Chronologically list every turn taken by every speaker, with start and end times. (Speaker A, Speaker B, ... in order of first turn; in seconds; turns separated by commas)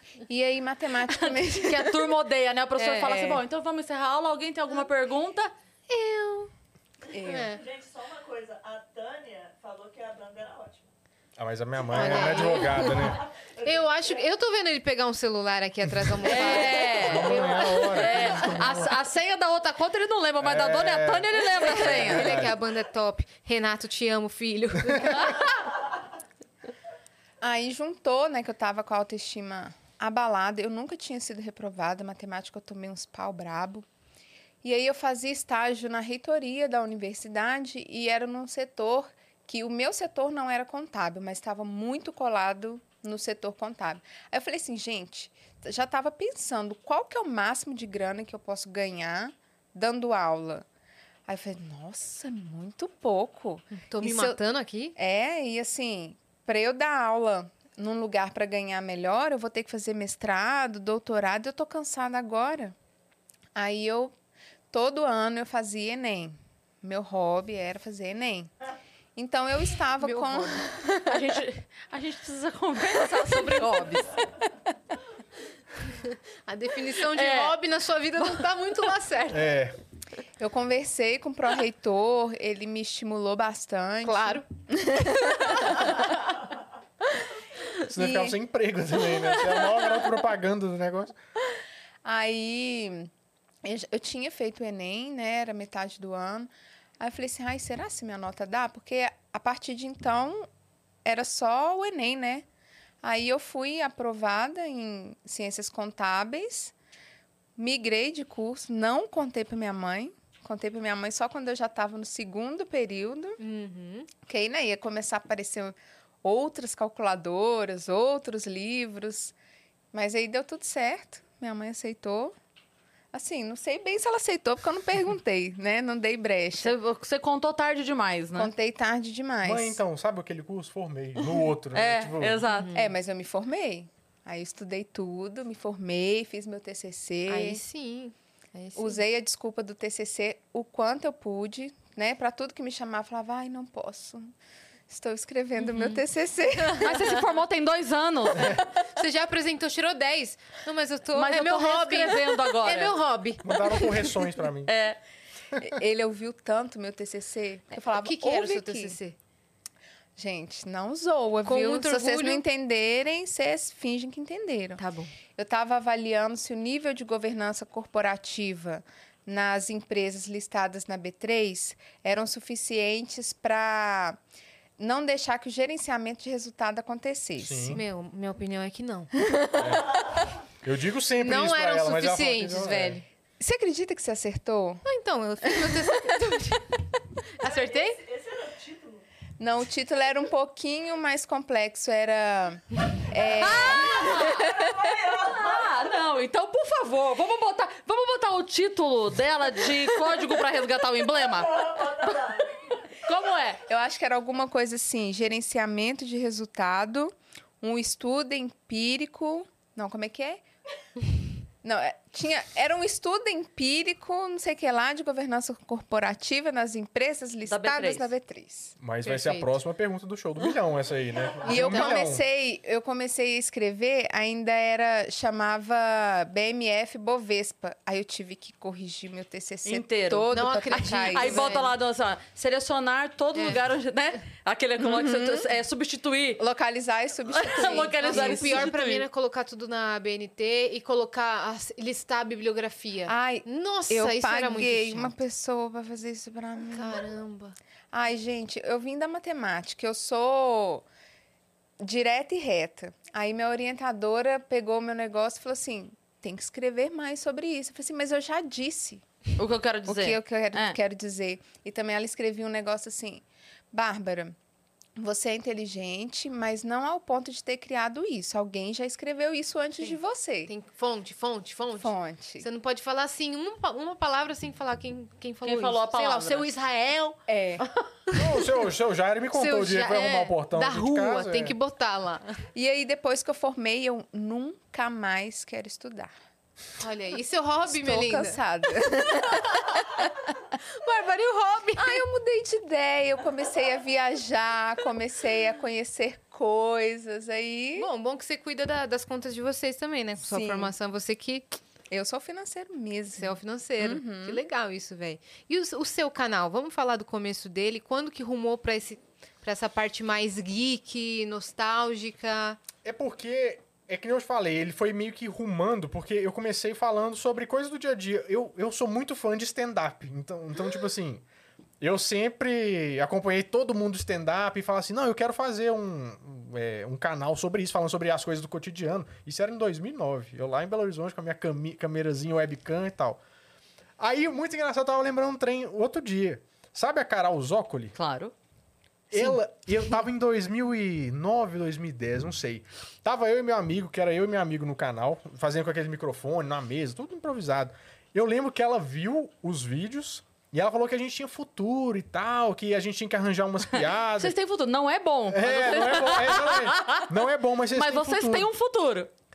Speaker A: 0.3-2.2, Speaker B: 1.1-5.5, Speaker A: 2.8-3.4, Speaker C: 5.9-6.5, Speaker D: 7.1-10.9, Speaker A: 7.1-7.5, Speaker C: 7.2-7.6, Speaker E: 11.4-13.2, Speaker C: 11.9-18.6, Speaker D: 11.9-14.2, Speaker B: 16.2-22.4, Speaker E: 16.8-19.0, Speaker E: 20.4-22.6, Speaker C: 21.6-25.4, Speaker A: 27.4-33.9, Speaker A: 34.6-50.6, Speaker A: 51.3-54.4, Speaker C: 53.8-54.9, Speaker A: 55.0-62.7, Speaker A: 63.5-64.1, Speaker A: 64.7-68.5, Speaker A: 69.2-71.4, Speaker C: 70.0-70.7, Speaker B: 71.0-74.2, Speaker C: 73.6-74.1, Speaker C: 75.8-79.5, Speaker B: 77.0-77.6, Speaker E: 79.3-79.8, Speaker A: 80.4-86.1, Speaker C: 84.0-84.5, Speaker E: 87.9-91.1, Speaker A: 87.9-88.3, Speaker A: 92.0-93.1, Speaker A: 93.6-100.5, Speaker A: 101.0-102.5, Speaker A: 103.0-106.7, Speaker A: 107.6-113.4, Speaker C: 113.4-114.1, Speaker A: 114.2-119.3, Speaker A: 119.9-122.3, Speaker A: 123.1-126.7, Speaker B: 126.6-128.5, Speaker A: 128.3-129.8, Speaker E: 129.4-132.4, Speaker B: 131.7-132.7, Speaker C: 132.5-132.9, Speaker A: 132.7-137.6, Speaker C: 137.3-139.0, Speaker A: 138.8-144.3, Speaker A: 144.9-147.1, Speaker C: 145.6-146.0, Speaker B: 146.8-148.6, Speaker C: 148.4-153.6, Speaker B: 151.1-152.9, Speaker E: 153.4-154.7, Speaker B: 154.7-155.0, Speaker A: 155.6-159.0, Speaker C: 157.9-159.2, Speaker A: 160.2-164.8, Speaker C: 161.4-162.4, Speaker C: 164.8-165.1, Speaker A: 165.3-174.2, Speaker A: 174.8-177.8, Speaker E: 177.4-177.8, Speaker C: 177.7-179.1, Speaker A: 179.2-179.8, Speaker E: 179.6-183.0, Speaker C: 181.2-183.0, Speaker A: 183.4-184.8, Speaker C: 184.8-186.8, Speaker A: 185.5-186.2, Speaker C: 187.4-188.0, Speaker D: 187.4-189.0, Speaker A: 189.4-194.7, Speaker B: 193.4-202.3, Speaker D: 193.5-195.7, Speaker D: 201.6-202.5, Speaker B: 203.0-203.6, Speaker A: 203.7-210.4, Speaker A: 211.6-218.8, Speaker B: 217.4-218.1, Speaker E: 218.8-222.2, Speaker C: 219.0-219.5, Speaker A: 221.4-231.5, Speaker B: 229.6-236.4, Speaker C: 230.3-231.8, Speaker C: 233.3-233.6, Speaker A: 234.8-235.5, Speaker A: 236.4-238.7, Speaker B: 237.3-239.1, Speaker C: 238.0-245.1, Speaker A: 243.1-247.1, Speaker C: 246.7-247.6, Speaker A: 247.9-250.8, Speaker A: 251.8-259.0, Speaker B: 259.4-260.8, Speaker A: 259.9-264.4, Speaker A: 265.0-270.5, Speaker C: 270.5-277.2, Speaker A: 271.8-272.4, Speaker B: 275.4-276.5, Speaker A: 277.3-277.6, Speaker C: 278.1-278.5, Speaker E: 278.1-281.5, Speaker C: 279.3-282.4, Speaker A: 282.5-286.1, Speaker C: 286.8-288.4, Speaker A: 287.7-290.1, Speaker C: 290.6-292.0, Speaker A: 291.8-297.9, Speaker C: 297.8-301.4, Speaker A: 300.2-300.7, Speaker A: 301.9-304.4, Speaker C: 303.2-312.6, Speaker E: 312.8-321.2, Speaker E: 321.8-333.2, Speaker E: 334.0-337.9, Speaker B: 337.9-338.3, Speaker E: 339.1-354.4, Speaker B: 354.2-357.1, Speaker E: 355.3-358.5, Speaker B: 357.7-359.1